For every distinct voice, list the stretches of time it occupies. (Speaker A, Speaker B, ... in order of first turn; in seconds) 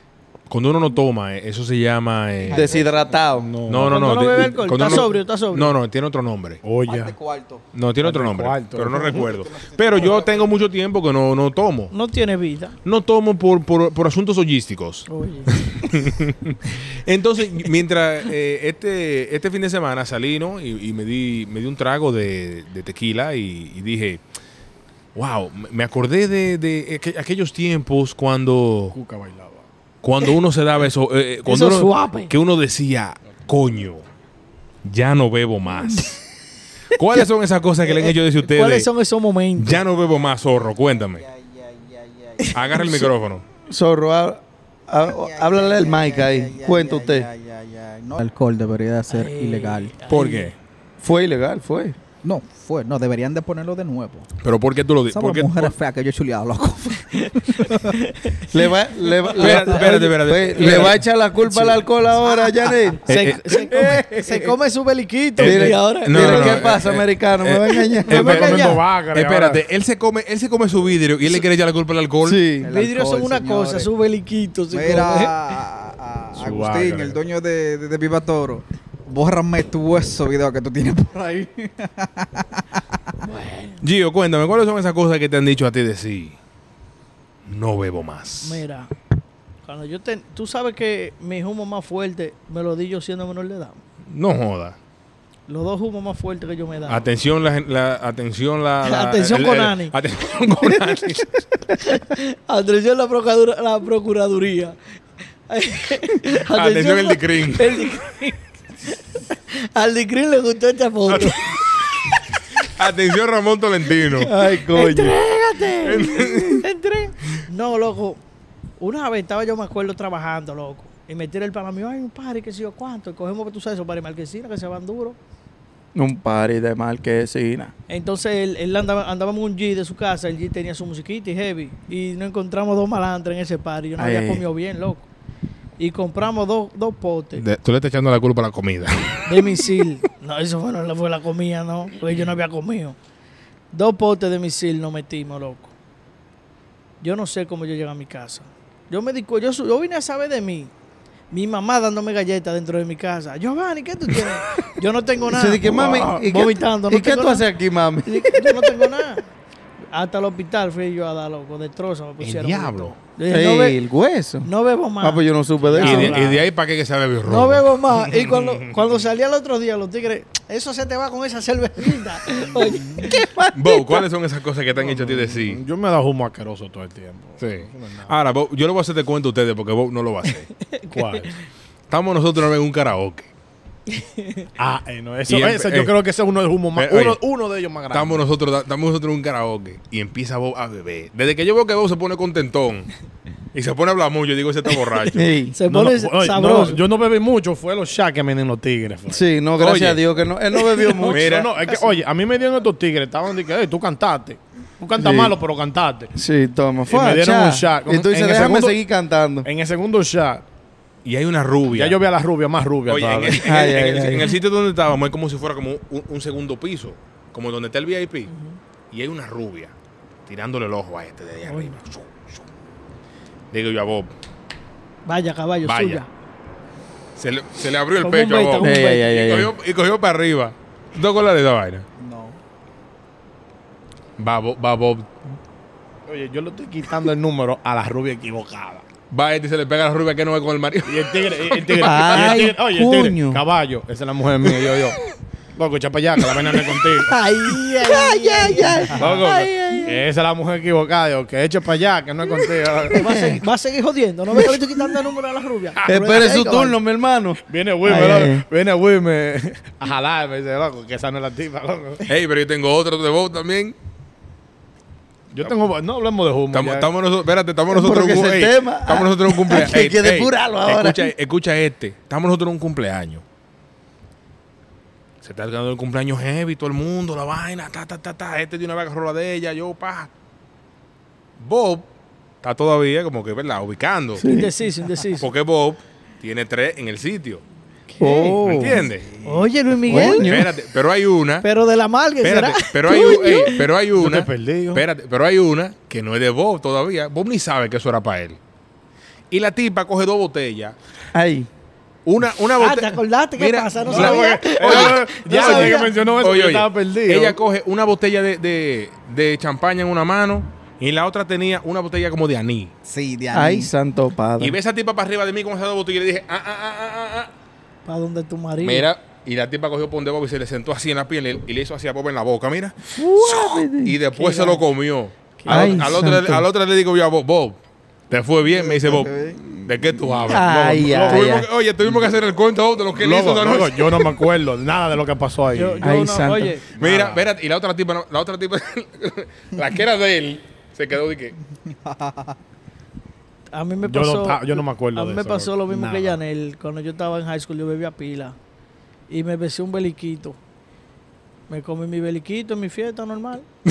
Speaker A: 0.5-2.8, 3.7-6.6, 7.7-11.9, 12.8-24.2, 25.1-28.9, 30.0-34.0, 34.8-36.2, 36.9-38.9, 39.6-41.2, 42.5-43.4, 50.1-50.5, 54.4-55.8, 59.4-61.0, 63.1-63.4, 65.4-72.4, 83.8-86.4, 87.5-88.6, 94.1-94.8, 96.9-101.4, 106.5-107.9, 111.1-111.6, 112.6-114.3, 115.8-116.7, 137.3-139.6, 162.2-162.9, 165.8-168.8, 173.5-175.6, 177.4-180.5, 181.9-183.3, 185.3-185.9, 186.7-187.2, 187.9-192.9, 193.5-195.3, 199.6-200.0, 201.1-201.5, 211.0-212.0, 212.9-218.3, 218.9-219.7, 220.2-222.4, 223.5-224.1, 225.6-226.0, 227.2-231.8, 234.2-235.1, 239.1-242.4, 262.1-263.7, 266.5-273.2, 275.2-280.1, 281.4-281.9, 282.4-284.2, 285.2-287.4, 288.4-289.1, 289.9-291.5, 292.2-298.4, 299.3-300.8, 302.0-312.7, 314.4-317.3, 318.6-327.6, 328.1-334.3, 336.8-341.3
Speaker B: 2.4-3.3, 6.8-7.6, 8.9-10.5, 40.9-42.8, 45.1-49.9, 52.2-54.3, 55.1-58.0, 59.4-59.9, 63.7-64.5, 72.6-73.9, 74.7-82.6, 172.3-173.1, 232.0-232.4, 312.8-313.7, 328.4-330.3, 341.5-342.4
Speaker C: 2.5-3.5, 43.7-47.3, 51.0-52.0, 58.5-63.3, 65.4-68.8, 72.2-72.7, 114.2-115.2, 125.9-127.7, 134.0-134.4, 155.3-158.7, 163.3-164.5, 165.0-166.2, 173.0-174.1, 195.1-195.6, 199.1-201.3, 205.0-205.3, 206.1-209.5, 213.4-214.3, 228.6-229.5, 241.8-243.4, 247.4-250.0, 253.1-253.4, 255.8-258.4, 267.7-271.1, 284.2-284.5, 288.0-288.9, 289.9-290.5, 301.1-301.5, 313.3-314.6, 322.9-323.9, 325.5-326.4, 330.3-331.5, 335.8-336.5
Speaker D: 3.4-4.0, 6.6-7.2, 8.0-9.2, 28.9-29.6, 68.1-69.6, 76.4-77.2, 165.7-166.4, 174.8-178.1, 180.9-181.3, 184.6-188.2, 195.7-199.2, 201.2-206.1, 206.9-208.8, 209.4-210.4, 211.7-213.6, 236.1-238.8, 240.8-245.0, 245.6-247.1, 248.9-253.3, 257.5-262.1, 265.3-266.9, 294.0-294.8, 303.9-307.4, 330.3-331.3, 333.0-335.8, 336.8-337.3, 343.8-346.2
Speaker E: 3.8-5.8, 11.9-12.8, 15.1-15.6, 31.4-32.3, 37.8-39.8, 42.4-43.0, 49.1-50.5, 57.1-58.5, 62.6-66.6, 72.7-75.3, 83.2-83.8, 88.4-88.9, 89.6-93.8, 95.5-97.0, 98.8-99.9, 101.8-104.8, 105.5-111.6, 114.3-118.2, 118.8-125.2, 127.9-135.1, 135.8-137.4, 139.2-142.9, 143.7-145.7, 147.0-150.7, 151.3-157.4, 158.1-159.2, 159.9-163.8, 164.4-165.2, 165.8-166.3, 167.3-173.1, 180.6-181.3, 183.9-184.5, 195.5-196.8, 200.5-202.0, 218.3-218.6, 221.4-221.8, 225.1-226.1, 228.0-229.1, 247.1-249.8, 252.9-256.8, 284.2-285.3, 287.9-288.4, 289.2-290.3, 291.4-293.6, 302.6-305.9, 317.9-318.9, 324.1-324.6, 325.4-325.9, 335.5-336.6, 343.5-348.4, 349.1-350.4, 351.5-353.4